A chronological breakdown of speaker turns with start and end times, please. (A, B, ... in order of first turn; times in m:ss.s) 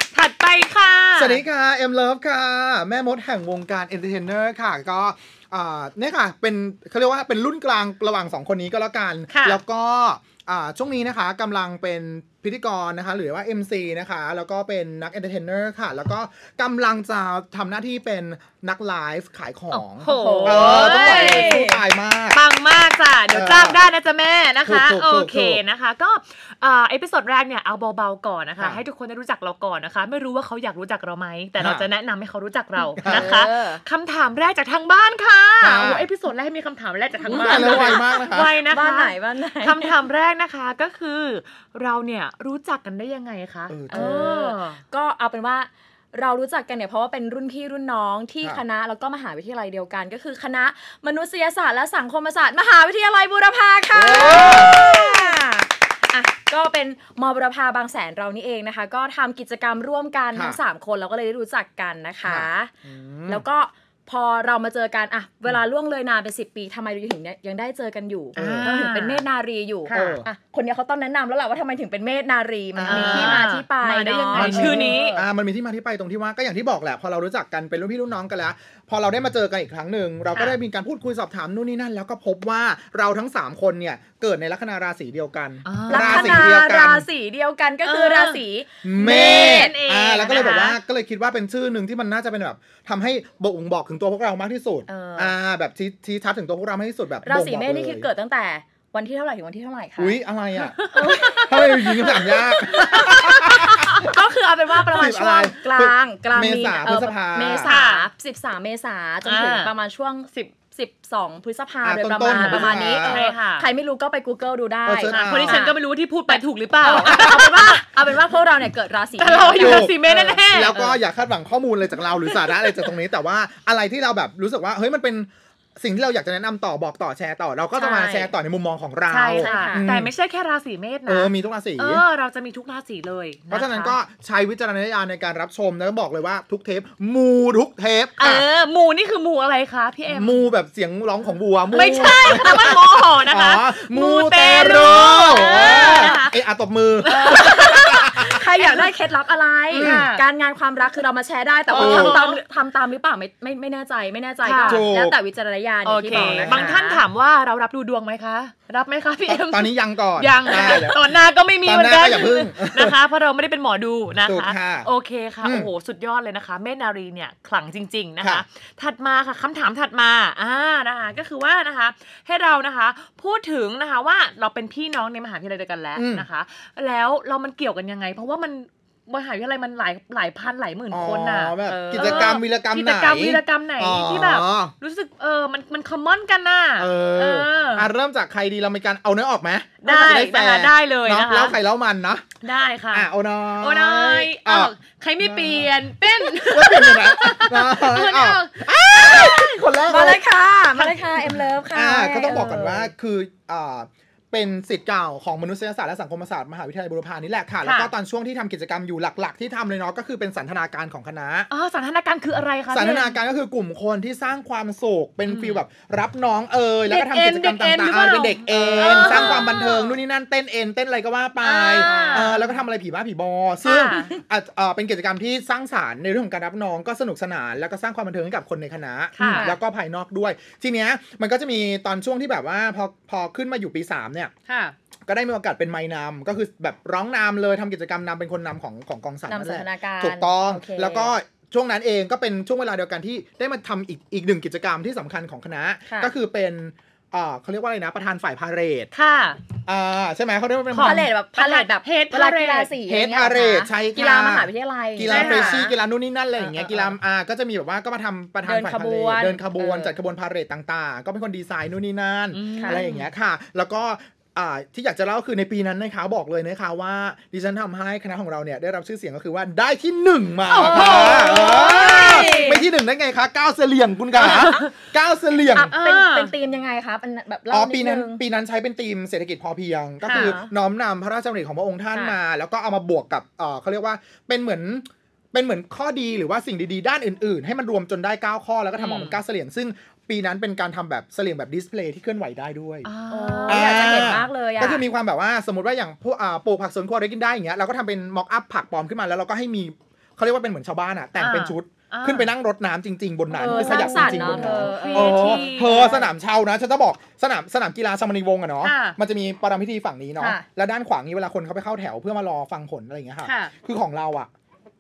0:00.1-0:01.4 A
0:01.2-0:22.4 B
0:09.3-0:09.6 A
0:19.7-0:21.7 A
0:20.0-0:21.8 C
0:22.3-0:44.8 A
0:23.3-0:23.8 B
0:24.6-0:25.6 B
0:31.6-0:31.9 B
0:33.0-0:33.3 B
0:33.0-0:33.8 C
0:35.6-0:36.1 B
0:37.2-0:40.0 C
0:37.3-0:38.5 B
0:43.7-0:44.3 B
0:43.9-1:02.7 C
0:53.9-0:54.9 B
0:54.4-0:54.6 A
1:00.3-1:00.6 B
1:02.2-1:03.4 B
1:03.3-1:15.2 C
1:08.4-1:08.8 B
1:08.4-1:09.2 A
1:09.9-1:10.3 B
1:12.8-1:13.5 B
1:12.9-1:15.2 A
1:14.3-1:27.1 B
1:20.3-1:20.6 A
1:25.6-1:26.5 A
1:25.9-1:29.7 C
1:27.8-1:28.4 A
1:28.8-1:38.1 B
1:29.0-1:30.8 A
1:34.9-1:35.4 C
1:37.2-1:40.2 C
1:40.0-1:44.1 B
1:40.8-1:41.2 A
1:40.9-2:01.0 C
1:44.8-1:47.7 B
1:47.6-1:48.1 A
1:49.2-1:49.7 A
1:51.8-1:53.2 B
1:52.3-1:53.7 A
1:54.8-1:55.6 B
1:55.1-1:57.8 A
1:56.9-1:57.5 B
1:59.2-2:00.8 A
1:59.6-2:10.1 B
2:02.2-2:02.7 A
2:07.8-2:08.3 C
2:09.1-2:14.0 A
2:09.4-2:10.0 C
2:11.1-2:12.0 B
2:13.5-2:18.5 B
2:18.2-2:20.4 A
2:20.1-2:28.4 B
2:21.7-2:26.4 A
2:25.5-2:26.2 C
2:27.0-2:27.8 A
2:27.1-2:37.0 C
2:28.6-2:28.9 A
2:29.7-2:30.2 A
2:29.8-2:30.1 B
2:31.7-2:32.4 A
2:31.8-2:32.2 B
2:34.4-2:34.9 A
2:34.7-2:35.2 B
2:35.8-3:07.9 A
2:36.1-2:36.8 B
2:39.3-2:43.0 B
2:44.2-2:44.9 B
2:45.4-2:45.7 B
2:56.0-2:56.3 B
3:00.9-3:04.7 B
3:01.7-3:02.3 C
3:06.8-3:12.3 B
3:09.8-3:11.6 A
3:09.8-3:10.2 C
3:12.4-3:19.5 A
3:12.9-3:15.7 B
3:16.4-3:20.2 B
3:19.9-3:22.9 C
3:20.8-3:31.5 B
3:27.6-3:27.9 A
3:31.5-3:33.2 A
3:32.7-3:54.3 B
3:35.3-3:35.6 A
3:36.8-3:40.0 A
3:38.8-3:39.5 C
3:41.4-3:42.4 A
3:41.8-3:42.5 C
3:43.6-3:44.2 A
3:49.2-3:49.5 A
3:49.2-3:49.6 C
3:54.5-3:54.8 A
3:55.1-4:08.9 B
3:59.3-4:01.1 C
4:05.9-4:06.1 C
4:08.9-4:09.4 A
4:09.7-4:11.1 B
4:10.7-4:12.8 A
4:10.8-4:15.8 C
4:12.9-4:35.7 B
4:15.1-4:15.7 A
4:16.4-4:16.9 C
4:18.4-4:20.0 C
4:22.3-4:23.1 A
4:22.6-4:22.8 C
4:30.5-4:32.6 A
4:30.6-4:32.7 C
4:34.2-4:34.7 A
4:35.5-4:38.2 C
4:35.7-4:36.3 A
4:37.5-4:52.9 B
4:40.0-4:40.4 A
4:40.1-4:40.5 C
4:48.8-4:49.2 A
4:52.8-4:54.0 A
4:53.1-4:54.8 C
4:53.5-5:14.3 B
5:01.2-5:02.3 A
5:03.3-5:06.1 C
5:03.4-5:05.9 A
5:08.6-5:09.0 A
5:10.2-5:10.4 C
5:13.2-5:13.5 A